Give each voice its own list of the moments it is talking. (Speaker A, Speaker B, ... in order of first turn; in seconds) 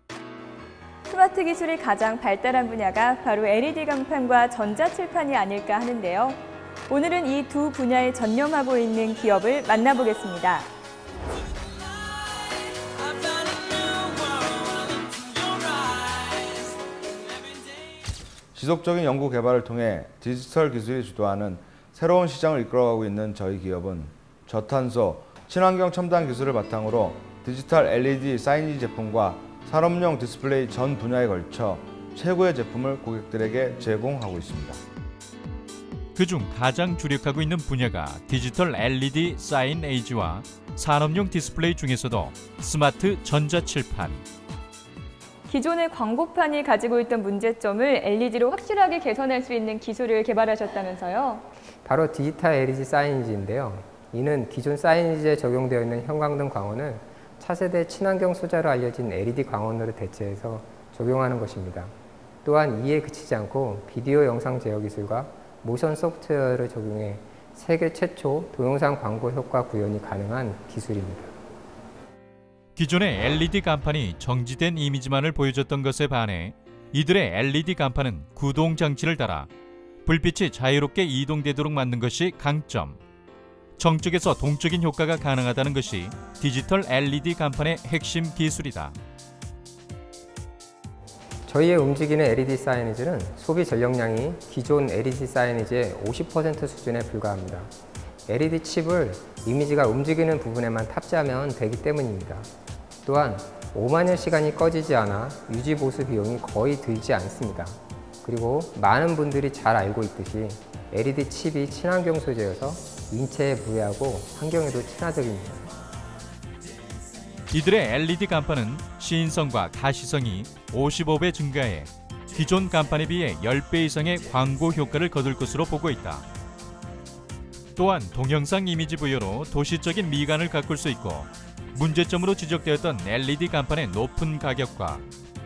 Speaker A: 1.1-10.7, 45.5-51.4
Speaker B: 18.5-34.8
Speaker C: 36.1-44.2, 72.8-79.5, 80.0-83.0, 83.8-89.0, 117.5-126.3, 127.8-135.0
Speaker D: 51.8-61.9, 62.4-71.3, 91.5-97.7, 98.3-102.5, 103.0-115.7